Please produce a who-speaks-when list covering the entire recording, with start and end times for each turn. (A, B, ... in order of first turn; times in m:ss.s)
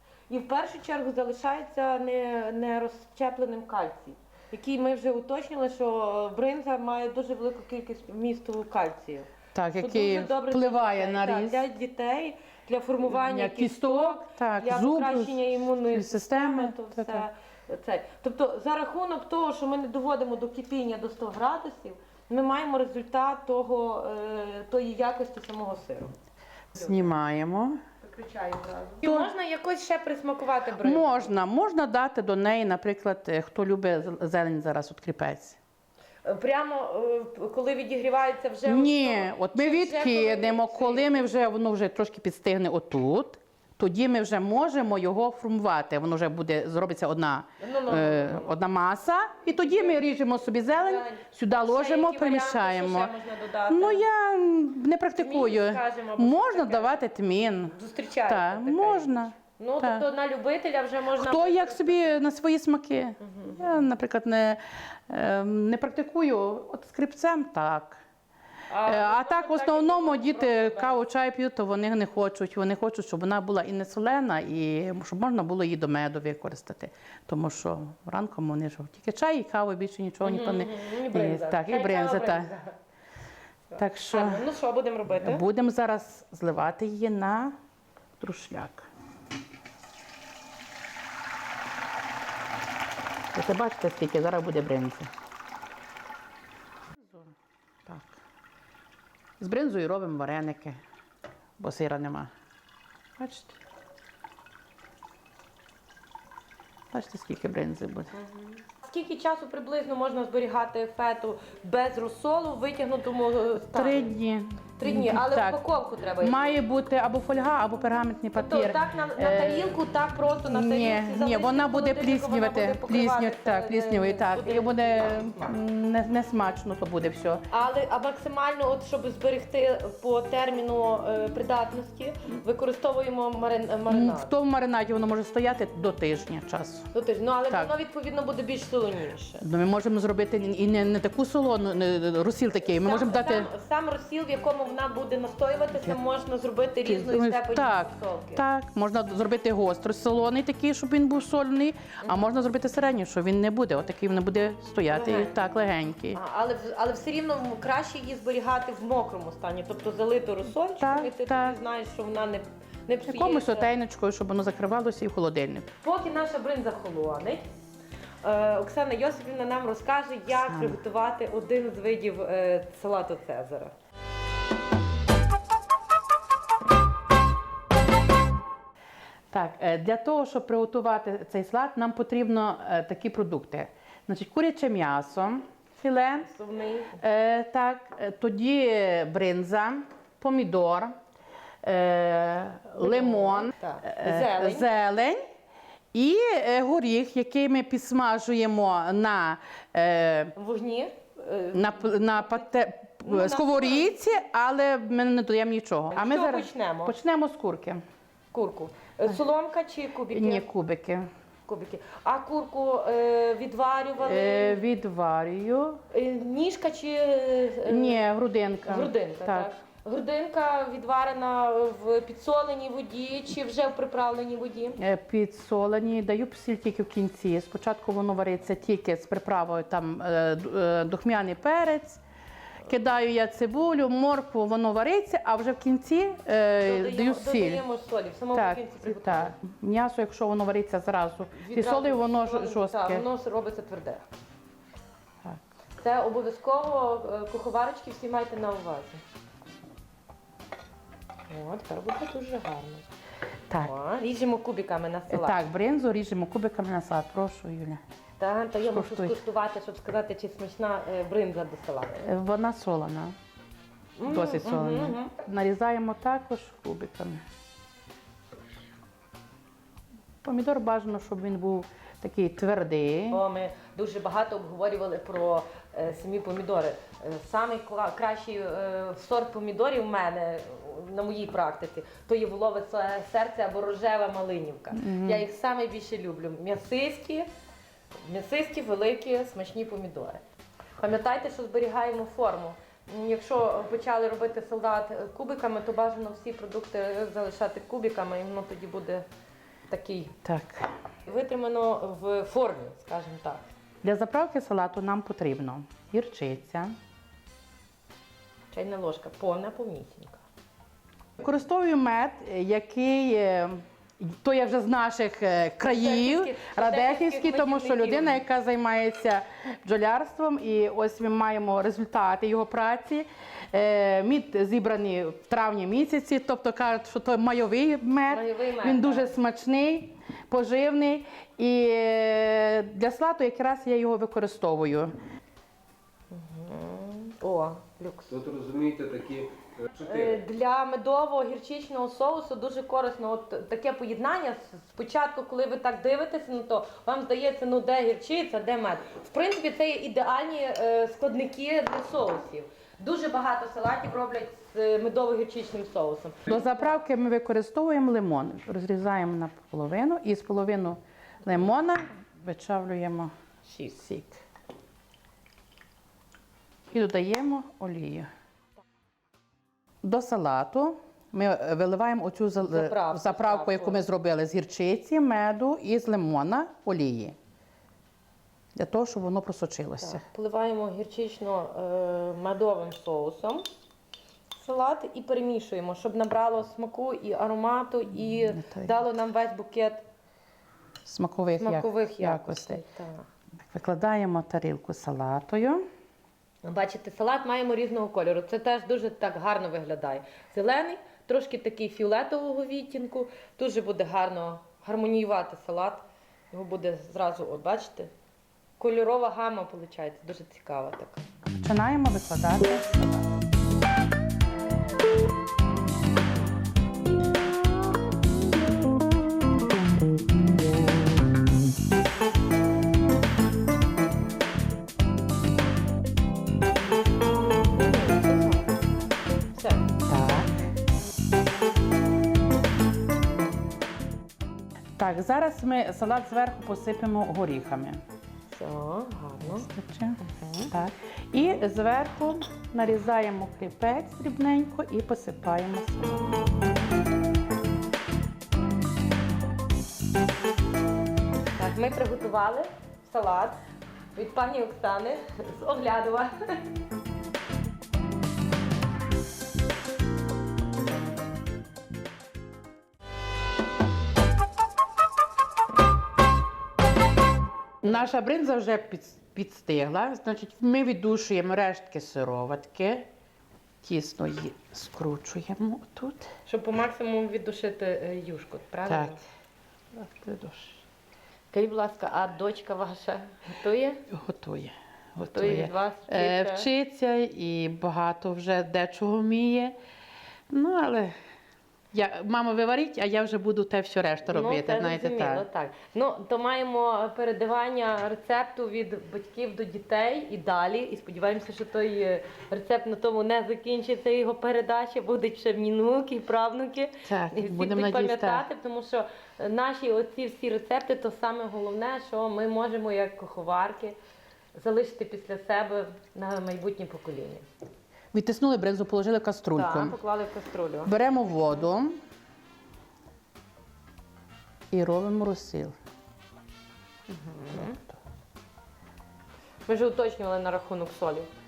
0:00.3-0:26.1 A
0:09.5-0:11.6 B
0:13.0-0:17.3 B
0:26.7-0:27.8 B
0:28.0-0:31.3 A
0:29.0-0:29.3 B
0:30.8-0:35.6 B
0:36.2-0:41.2 A
0:38.6-0:53.1 B
0:47.6-0:48.5 A
0:49.6-0:50.0 A
0:50.7-0:54.0 A
0:53.7-1:00.1 B
0:55.2-0:57.0 A
0:57.7-1:02.2 A
1:01.2-1:08.0 B
1:03.2-1:03.7 A
1:08.7-1:11.0 A
1:08.8-1:22.5 B
1:20.2-1:22.8 A
1:23.7-1:25.4 A
1:23.8-1:24.5 B
1:25.1-1:27.6 B
1:28.2-1:28.9 B
1:33.3-1:35.1 B
1:37.1-1:37.3 B
1:37.9-1:38.2 B
1:39.4-1:40.8 B
1:41.6-1:42.3 B
1:43.2-1:43.6 B
1:46.9-1:48.1 B
1:48.1-1:54.2 A
1:53.5-1:55.6 B
1:54.8-1:56.6 A
1:56.2-1:59.8 B
1:58.4-2:05.5 A
2:00.5-2:07.4 B
2:07.5-2:14.3 A
2:13.9-2:16.9 B
2:16.9-2:19.4 A
2:19.4-2:23.5 B
2:22.8-2:28.4 A
2:26.8-2:36.2 B
2:34.9-2:35.3 A
2:36.1-2:43.7 A
2:40.8-2:41.6 B
2:43.1-2:45.7 B
2:45.8-2:47.4 A
2:48.2-2:53.7 A
2:50.3-2:50.8 B
2:59.3-3:06.3 B
3:06.3-3:07.0 A
3:07.0-3:11.0 B
3:11.6-3:15.2 B
3:12.8-3:14.7 A
3:15.9-3:20.3 B
3:20.4-3:21.8 A
3:21.5-3:27.8 B
3:23.0-3:24.0 A
3:25.9-3:27.0 A
3:28.3-3:30.4 A
3:30.1-3:31.1 B
3:31.5-3:34.6 A
3:34.0-3:35.8 B
3:35.9-3:38.0 A
3:37.7-3:39.5 B
3:38.7-3:44.8 A
3:44.8-3:52.0 B
3:52.6-3:57.6 B
3:56.6-3:59.4 A
3:58.3-4:03.0 B
4:01.4-4:04.0 A
4:05.8-4:09.0 A
4:11.3-4:12.9 A
4:13.6-4:15.4 A
4:15.1-4:17.8 B
4:18.2-4:22.0 A
4:18.7-4:19.2 B
4:22.0-4:23.2 B
4:24.0-4:25.1 A
4:24.1-4:27.2 B
4:30.2-4:33.2 B
4:33.1-4:47.3 A
4:44.7-4:45.3 B
4:48.0-4:50.2 A
4:50.8-4:59.0 A
4:59.7-5:00.2 A
5:00.2-5:00.7 B
5:01.1-5:03.5 A
5:03.8-5:06.8 B
5:08.5-5:10.2 A
5:11.2-5:35.0 B
5:15.6-5:18.2 A
5:28.1-5:29.2 A
5:36.1-5:38.2 A
5:38.1-5:40.2 C
5:39.8-5:56.4 A
5:56.3-6:03.1 B
6:03.4-6:03.8 A
6:03.8-6:04.2 B
6:06.7-6:08.1 B
6:09.8-6:17.2 B
6:12.4-6:13.8 A
6:18.6-6:20.0 B
6:19.8-6:23.5 A
6:24.4-6:29.8 A
6:28.3-6:28.8 B
6:30.8-6:32.6 B
6:31.4-6:33.1 A
6:33.5-6:35.7 B
6:36.4-6:47.9 A
6:48.6-6:51.1 A
6:51.4-6:53.1 B
7:07.5-7:08.5 A
7:09.3-7:09.7 A
7:09.9-7:10.5 B
7:14.8-7:17.8 B
7:18.3-7:19.5 A
7:19.2-7:20.0 B
7:20.0-7:20.5 A
7:20.5-7:26.2 B
7:31.4-7:33.4 A
7:34.0-7:36.4 A
7:47.6-7:52.9 B
7:53.6-7:56.1 B
7:56.3-7:59.0 A
7:58.7-7:59.0 B
7:59.8-8:00.6 B
8:01.3-8:03.8 A
8:03.9-8:09.6 B
8:05.1-8:06.5 A
8:10.3-8:11.0 B
8:11.7-8:15.2 B
8:14.1-8:33.8 A
8:26.8-8:28.2 B
8:34.4-8:37.2 A
8:37.9-8:39.8 B
8:39.4-8:40.8 A
8:40.7-8:41.8 B
8:44.5-8:45.6 B
8:46.9-8:47.6 A
8:47.3-8:47.6 B
8:49.5-8:51.1 A